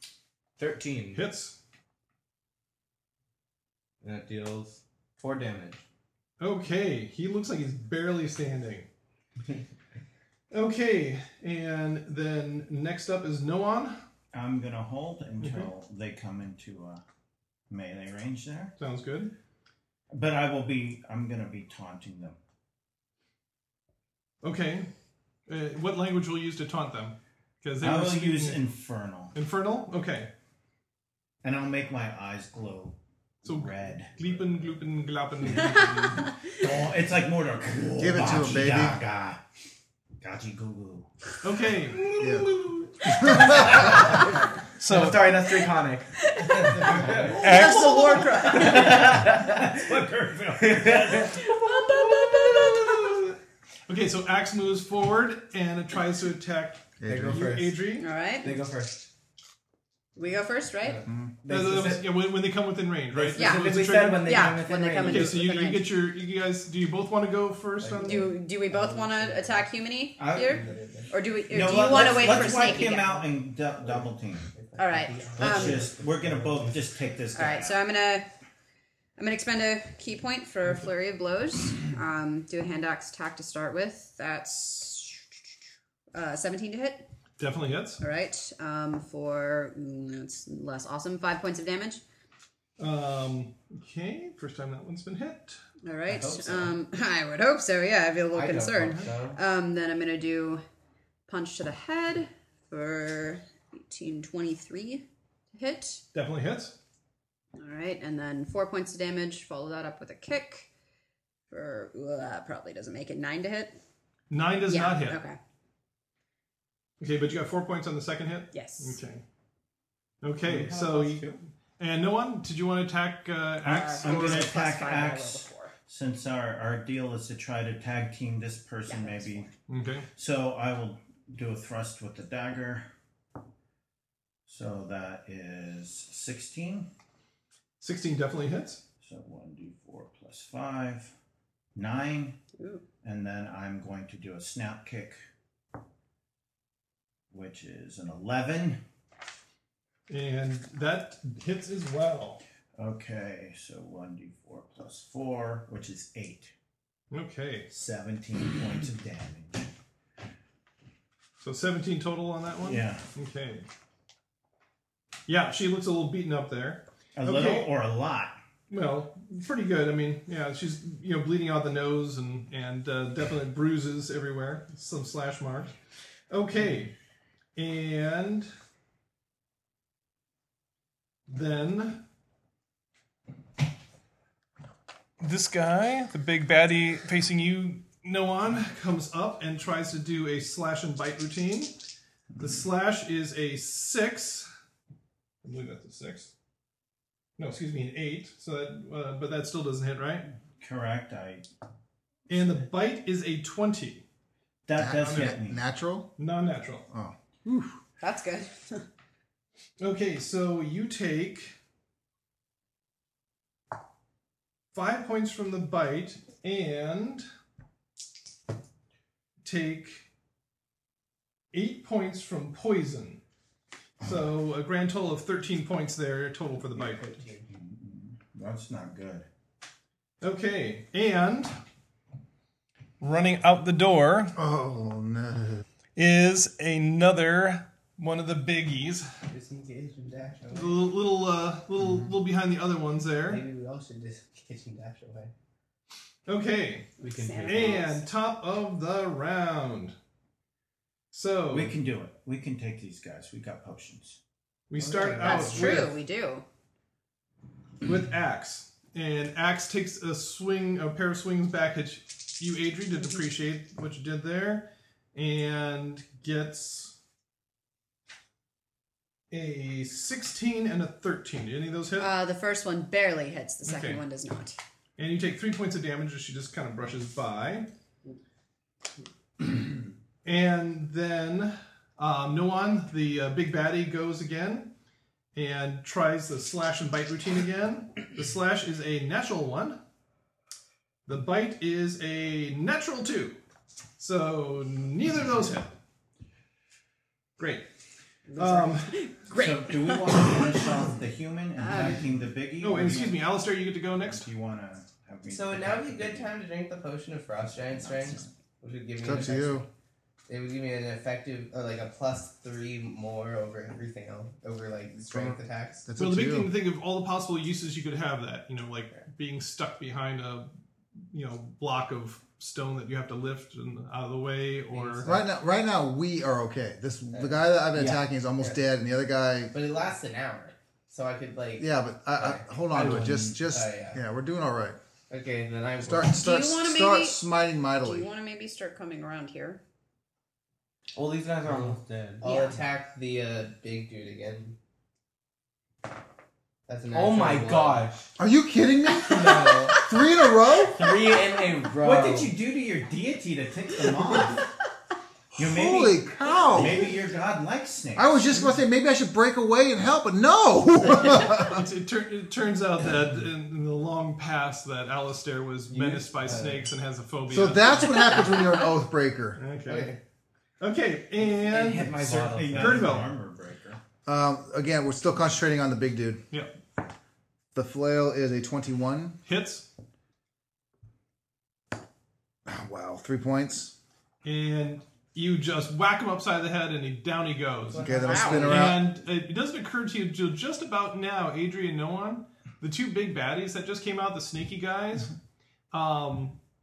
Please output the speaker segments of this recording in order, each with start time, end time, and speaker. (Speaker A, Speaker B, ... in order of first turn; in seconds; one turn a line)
Speaker A: 0.6-1.2
Speaker B: 1.1-1.6
Speaker A: 4.0-5.8
Speaker B: 6.4-8.9
Speaker B: 10.5-14.0
Speaker C: 14.3-17.0
Speaker B: 15.4-15.7
Speaker C: 17.7-18.7
Speaker B: 18.8-19.3
Speaker C: 20.1-22.4
Speaker B: 24.4-24.9
Speaker B: 25.5-28.6
Speaker C: 27.8-29.4
Speaker B: 29.3-30.3
Speaker C: 31.4-34.6
Speaker B: 33.5-36.3
Speaker C: 36.5-39.4
Speaker D: 38.0-39.0
Speaker C: 40.2-41.1
Speaker B: 41.4-42.3
Speaker D: 42.2-42.5
Speaker B: 43.1-43.8
Speaker D: 43.1-44.1
Speaker A: 43.3-46.1
Speaker B: 44.8-45.3
Speaker E: 46.2-49.1
Speaker F: 46.5-47.0
Speaker A: 46.6-47.5
Speaker B: 47.3-48.7
Speaker C: 47.3-51.5
Speaker A: 48.5-49.7
Speaker A: 50.6-51.4
Speaker E: 51.1-53.2
Speaker B: 52.7-53.3
Speaker B: 53.9-58.1
Speaker D: 57.0-57.5
Speaker A: 57.1-57.8
Speaker E: 58.0-58.5
Speaker A: 58.4-59.1
Speaker E: 60.2-61.0
Speaker A: 60.8-62.2
Speaker D: 61.1-61.3
Speaker B: 61.5-68.3
Speaker A: 63.1-65.4
Speaker E: 63.4-65.9
Speaker A: 67.8-68.2
Speaker E: 68.0-73.1
Speaker F: 68.7-69.5
Speaker C: 70.2-70.6
Speaker F: 70.4-71.1
Speaker C: 71.5-74.5
Speaker F: 71.7-73.2
Speaker A: 72.0-72.4
Speaker F: 74.5-76.0
Speaker E: 74.8-75.8
Speaker C: 75.4-77.8
Speaker A: 75.4-76.8
Speaker E: 77.3-78.3
Speaker E: 79.2-85.3
Speaker E: 86.1-87.0
Speaker B: 87.4-88.0
Speaker E: 88.0-92.0
Speaker B: 92.8-95.6
Speaker E: 95.8-100.6
Speaker A: 96.2-96.7
Speaker F: 98.4-99.4
Speaker A: 98.4-99.3
Speaker E: 101.3-106.0
Speaker B: 106.1-106.8
Speaker E: 107.6-110.7
Speaker E: 111.5-113.8
Speaker B: 114.3-115.2
Speaker E: 114.7-115.4
Speaker B: 117.0-119.2
Speaker E: 118.5-119.0
Speaker B: 120.2-124.5
Speaker A: 120.4-121.4
Speaker E: 123.7-125.7
Speaker C: 124.0-129.5
Speaker E: 128.9-129.5
Speaker B: 129.7-130.1
Speaker C: 130.2-132.9
Speaker C: 134.5-136.9
Speaker B: 137.8-138.8
Speaker C: 139.0-141.2
Speaker C: 141.8-142.4
Speaker E: 142.6-142.8
Speaker C: 143.0-145.3
Speaker C: 147.3-148.8
Speaker B: 150.1-152.4
Speaker C: 152.8-156.5
Speaker B: 157.1-157.7
Speaker C: 157.7-159.7
Speaker B: 161.4-163.7
Speaker C: 162.6-163.0
Speaker B: 165.3-167.7
Speaker C: 167.2-168.4
Speaker B: 168.7-175.7
Speaker B: 176.3-176.9
Speaker B: 177.6-178.5
Speaker B: 181.3-182.0
Speaker B: 185.2-191.7
Speaker B: 192.4-194.5
Speaker B: 195.4-196.3
Speaker B: 197.4-200.3
Speaker C: 200.6-201.4
Speaker B: 202.3-204.0
Speaker C: 204.7-205.6
Speaker D: 204.8-206.1
Speaker B: 205.0-205.4
Speaker B: 206.2-206.9
Speaker D: 206.9-207.8
Speaker E: 208.0-208.8
Speaker B: 209.8-211.5
Speaker B: 214.7-217.2
Speaker B: 219.4-220.1
Speaker B: 221.5-223.2
Speaker B: 224.0-227.1
Speaker F: 226.7-227.5
Speaker C: 227.5-229.3
Speaker B: 230.2-231.5
Speaker B: 233.0-234.4
Speaker D: 234.3-235.6
Speaker B: 236.0-239.1
Speaker F: 239.3-240.8
Speaker B: 240.5-243.4
Speaker F: 243.3-245.3
Speaker B: 246.3-246.9
Speaker E: 247.0-248.0
Speaker A: 247.0-248.0
Speaker B: 247.4-249.9
Speaker B: 251.1-251.8
Speaker C: 251.5-254.2
Speaker B: 254.7-255.9
Speaker A: 254.8-255.8
Speaker F: 255.0-255.8
Speaker E: 255.2-256.4
Speaker B: 257.8-266.9
Speaker B: 269.3-272.1
Speaker E: 272.0-274.6
Speaker B: 273.6-274.0
Speaker B: 275.0-277.7
Speaker B: 280.2-284.7
Speaker B: 285.4-289.8
Speaker B: 291.1-293.4
Speaker B: 294.0-295.7
Speaker B: 297.4-297.7
Speaker E: 298.3-300.9
Speaker B: 298.4-298.9
Speaker C: 299.3-303.2
Speaker E: 301.6-302.0
Speaker B: 302.6-304.3
Speaker C: 304.0-306.3
Speaker F: 305.3-309.7
Speaker C: 307.9-308.2
Speaker D: 309.0-309.7
Speaker F: 310.3-315.9
Speaker D: 314.9-316.5
Speaker B: 316.0-320.5
Speaker B: 321.1-325.1
Speaker F: 324.7-325.2
Speaker D: 325.0-329.5
Speaker A: 327.7-328.0
Speaker F: 329.5-334.0
Speaker D: 331.6-334.8
Speaker A: 332.7-333.4
Speaker F: 335.1-336.1
Speaker D: 335.8-338.1
Speaker E: 336.2-337.2
Speaker E: 337.8-339.6
Speaker A: 341.0-342.2
Speaker E: 342.2-342.6
Speaker F: 342.2-344.6
Speaker F: 346.7-347.9
Speaker A: 346.9-348.1
Speaker D: 348.2-350.9
Speaker E: 349.0-349.9
Speaker A: 349.0-349.8
Speaker A: 350.7-352.3
Speaker C: 351.8-354.4
Speaker D: 355.3-356.9
Speaker C: 355.4-358.2
Speaker D: 357.9-361.7
Speaker B: 361.3-367.9
Speaker A: 365.7-366.7
Speaker D: 367.3-369.4
Speaker B: 369.4-370.0
Speaker F: 369.7-370.0
Speaker B: 370.6-373.1
Speaker A: 371.4-373.0
Speaker C: 372.0-373.8
Speaker D: 374.1-376.2
Speaker D: 377.5-379.2
Speaker B: 379.3-379.7
Speaker D: 382.5-383.7
Speaker B: 384.2-395.1
Speaker F: 387.7-388.7
Speaker D: 387.8-388.9
Speaker E: 388.0-388.6
Speaker B: 395.7-396.4